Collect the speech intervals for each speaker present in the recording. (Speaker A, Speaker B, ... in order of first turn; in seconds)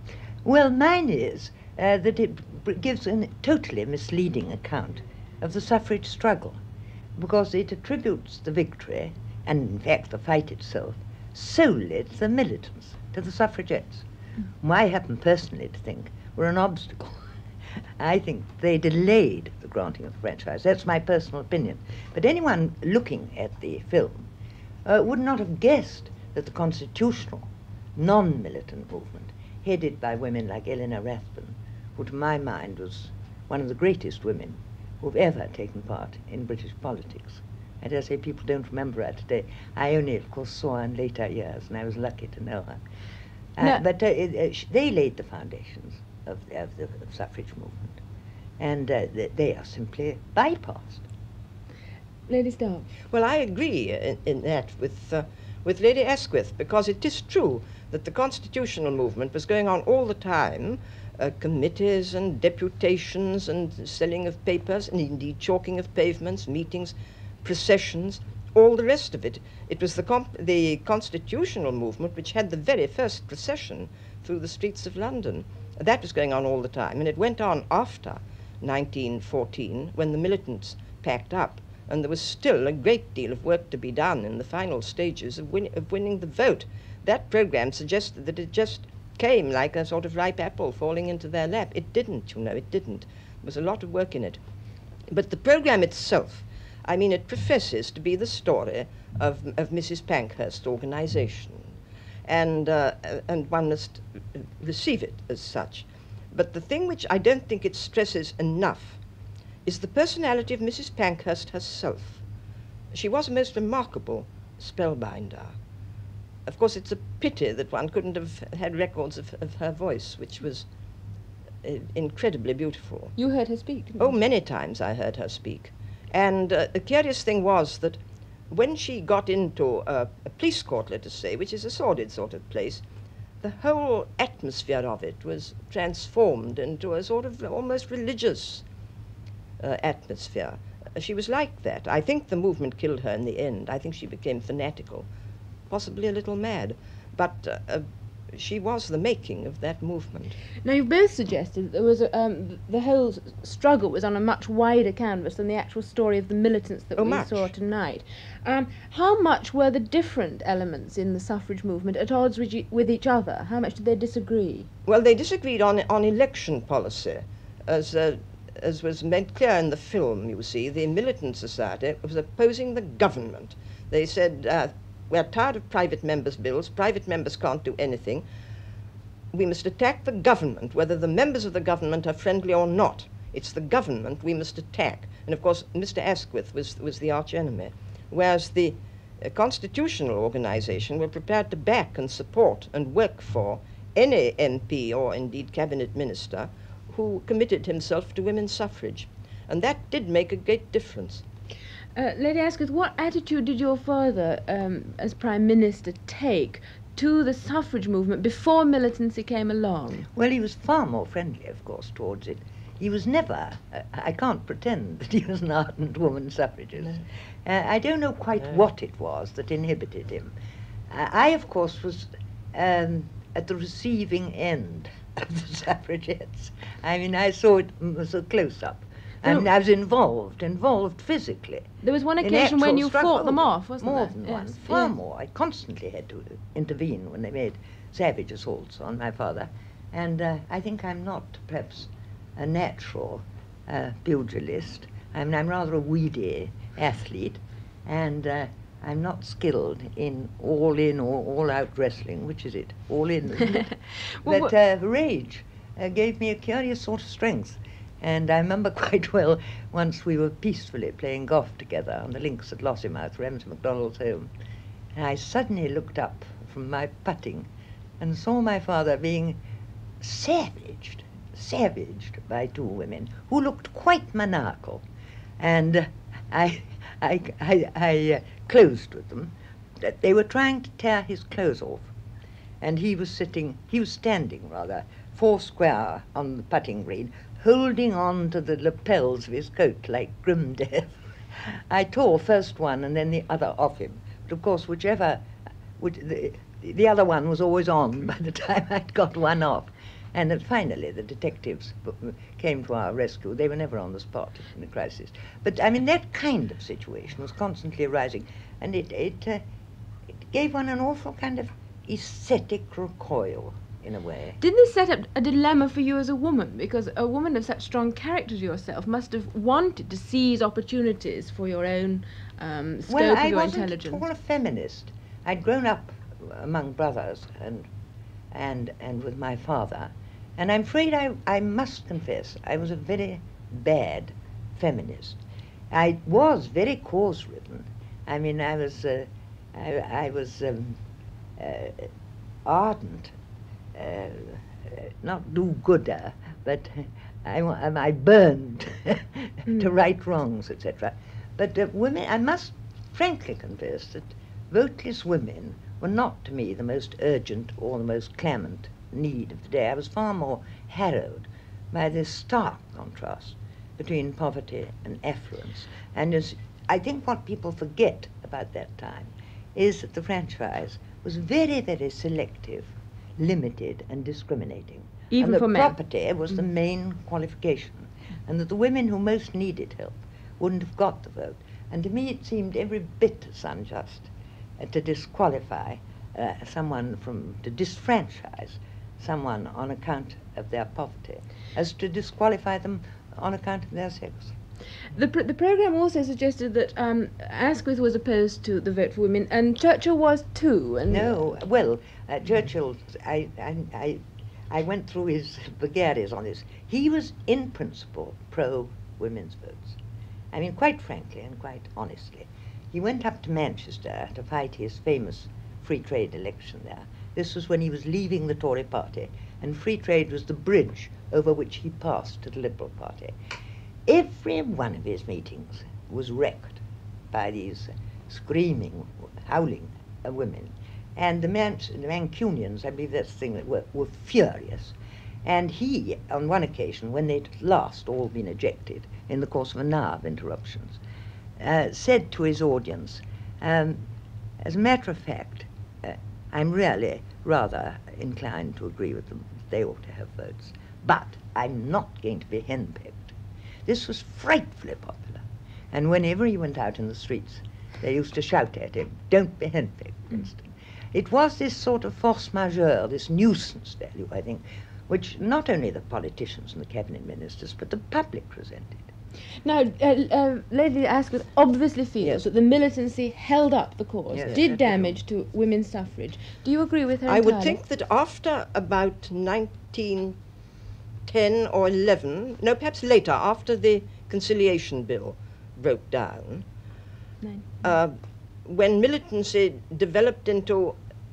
Speaker A: 0.4-6.6, 7.2-14.1, 14.6-17.3, 18.0-24.3, 24.8-42.8, 43.6-48.0, 48.6-51.0, 210.1-220.3, 220.9-264.3, 264.9-267.5, 268.0-269.4, 270.0-274.8, 275.4-281.9, 282.6-295.2, 295.8-309.4, 310.2-314.4, 322.9-327.7, 328.3-335.2, 335.7-340.8, 341.4-341.9, 342.4-343.1, 343.7-394.3, 400.9-409.8, 410.3-423.1, 423.9-440.8, 441.4-443.9, 444.4-453.1, 453.6-468.9, 474.1-475.0
Speaker B: 52.3-52.9, 123.2-124.1, 150.6-164.7, 201.9-210.1, 231.8-234.9, 254.2-254.5, 314.4-324.0, 349.5-349.7, 375.1-375.7, 394.9-401.3, 469.4-477.6, 487.2-487.6
Speaker C: 53.1-94.4, 95.1-101.7, 102.3-109.0, 109.7-112.2, 112.9-115.5, 116.5-120.7, 121.6-123.1, 124.0-128.0, 128.5-132.8, 133.4-138.6, 139.6-145.1, 145.7-150.4, 157.0-157.5, 164.8-178.2, 179.3-201.2, 477.1-480.2, 481.1-486.4, 487.6-490.8